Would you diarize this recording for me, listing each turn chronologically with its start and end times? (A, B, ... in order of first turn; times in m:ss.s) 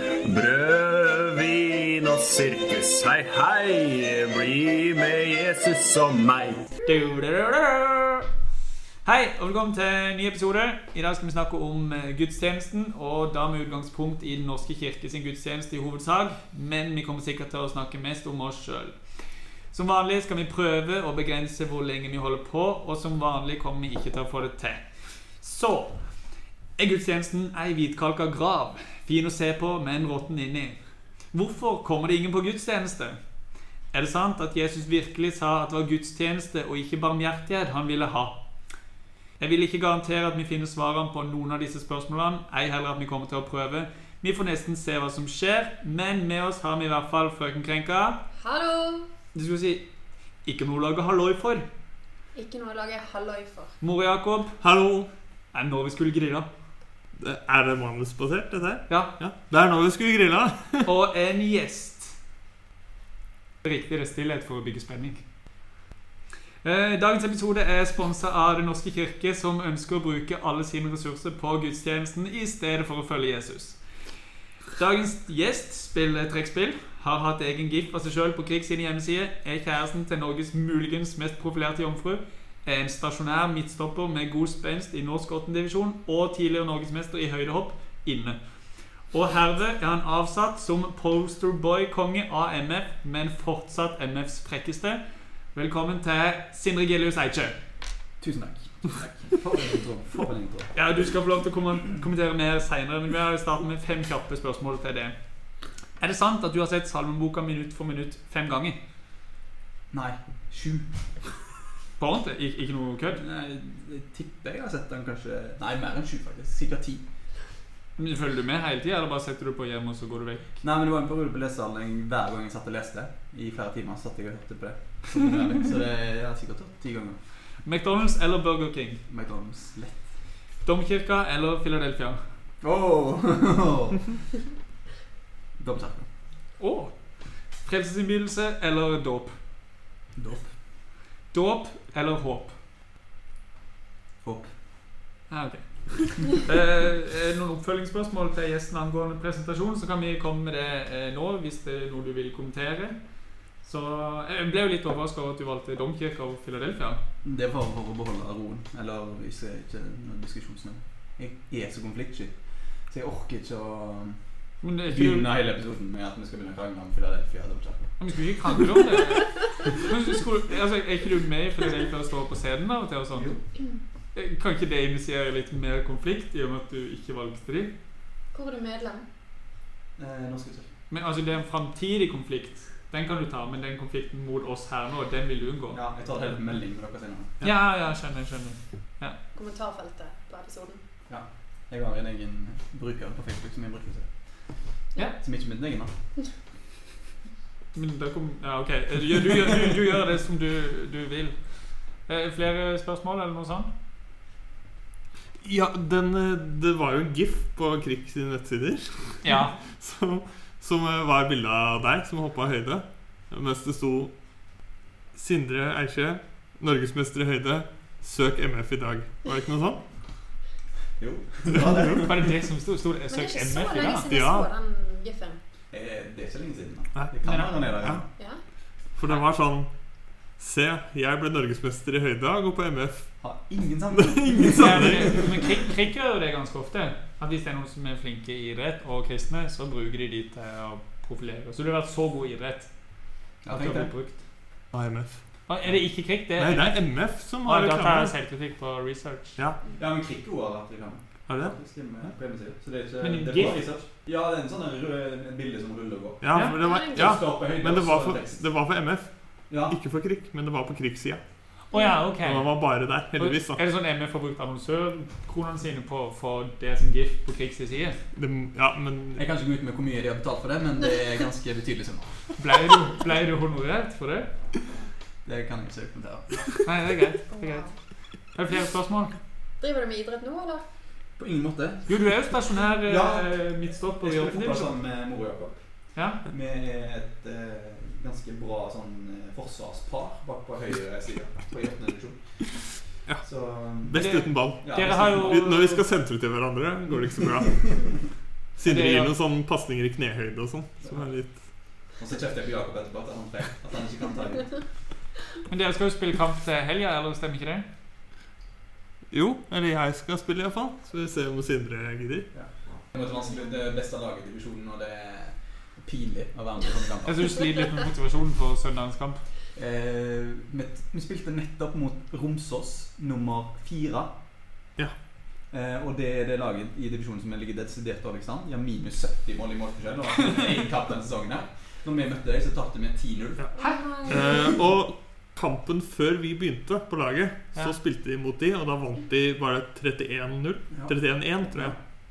0:00.2-0:06.7 A
0:06.8-0:08.3 B
0:09.0-0:19.0 B
0:19.7-0:24.8 B
0:25.4-0:26.0 B
0:26.8-0:30.8 B
0:31.3-0:33.2 B
0:33.9-0:38.4 B
0:39.4-0:48.2 B
0:48.4-0:49.1 C
0:49.3-0:49.8 B
0:50.4-0:51.7 B
0:52.3-0:53.8 C
0:53.8-0:54.6 B
0:54.6-0:55.1 D
0:55.5-0:56.5 B
0:57.2-1:00.9 D
1:00.8-1:02.1 B
1:03.6-1:05.2 B
1:06.6-1:13.8 B
1:14.7-1:28.4 B
1:29.1-1:35.0 B
1:35.5-1:37.6 B
1:38.2-1:40.7 E
1:40.8-1:45.1 B
1:46.0-1:48.8 B
1:49.9-1:50.9 E
1:52.0-1:53.2 B
1:53.2-1:57.0 E
1:58.0-2:00.4 B
2:00.6-2:07.2 E
2:07.6-2:09.0 B
2:09.1-2:10.0 E
2:10.6-2:12.2 B
2:12.6-2:14.2 E
2:15.6-2:16.1 E
2:16.6-2:19.4 B
2:20.2-2:20.5 E
2:21.3-2:22.5 B
2:24.2-2:24.5 E
2:25.3-2:33.0 B
2:33.6-2:37.0 B
2:37.2-2:42.4 E
2:42.9-2:44.2 E
2:44.6-2:45.3 B
2:44.9-2:47.8 E
2:48.0-2:53.3 B
2:53.1-2:53.4 E
2:54.1-2:57.7 B
2:58.3-2:59.0 C
3:00.0-3:00.7 E
3:00.9-3:05.8 B
3:05.7-3:07.3 E
3:07.4-3:09.2 B
3:09.3-3:10.8 C
3:11.1-3:14.2 E
3:15.2-3:15.9 E
3:17.7-3:23.7 B
3:25.4-3:34.1 D
3:29.2-3:29.5 B
3:35.1-3:39.8 D
3:41.0-3:42.2 E
3:41.5-3:42.0 D
3:42.0-3:44.0 B
3:43.1-3:45.4 C
3:44.1-3:44.5 D
3:45.7-3:48.1 E
3:47.2-3:47.5 B
3:48.9-3:49.7 D
3:50.2-3:53.1 D
3:53.2-3:55.3 E
3:54.0-3:55.2 D
3:54.6-4:04.2 B
4:03.4-4:03.9 E
4:04.7-4:05.3 D
4:05.5-4:06.8 B
4:06.4-4:08.1 D
4:07.4-4:09.4 B
4:09.8-4:18.4 E
4:11.3-4:12.1 D
4:13.0-4:13.6 B
4:16.2-4:21.5 D
4:16.3-4:16.6 B
4:16.6-4:17.2 C
4:19.5-4:19.8 E
4:21.7-4:28.0 B
4:22.2-4:23.6 D
4:28.2-4:29.2 D
4:29.2-4:32.3 E
4:32.4-4:34.3 B
4:35.2-4:36.4 E
4:36.6-4:37.7 B
4:37.3-4:37.7 C
4:38.3-4:39.1 B
4:39.6-4:40.6 C
4:41.2-4:41.9 E
4:41.9-4:44.7 B
4:42.9-4:43.5 E
4:44.0-4:45.6 E
4:45.9-4:46.2 B
4:46.2-4:52.6 E
4:53.2-4:54.0 E
4:53.8-4:58.0 D
4:54.0-4:55.8 B
4:54.6-4:55.3 E
4:58.6-5:01.5 D
4:58.6-4:59.1 B
5:00.8-5:04.6 E
5:05.5-5:07.7 B
5:09.1-5:12.3 D
5:12.3-5:17.4 E
5:17.1-5:19.2 B
5:19.6-5:24.1 E
5:25.5-5:33.4 E
5:33.4-5:33.7 B
5:33.6-5:34.6 C
5:34.1-5:41.8 D
5:41.5-5:41.8 E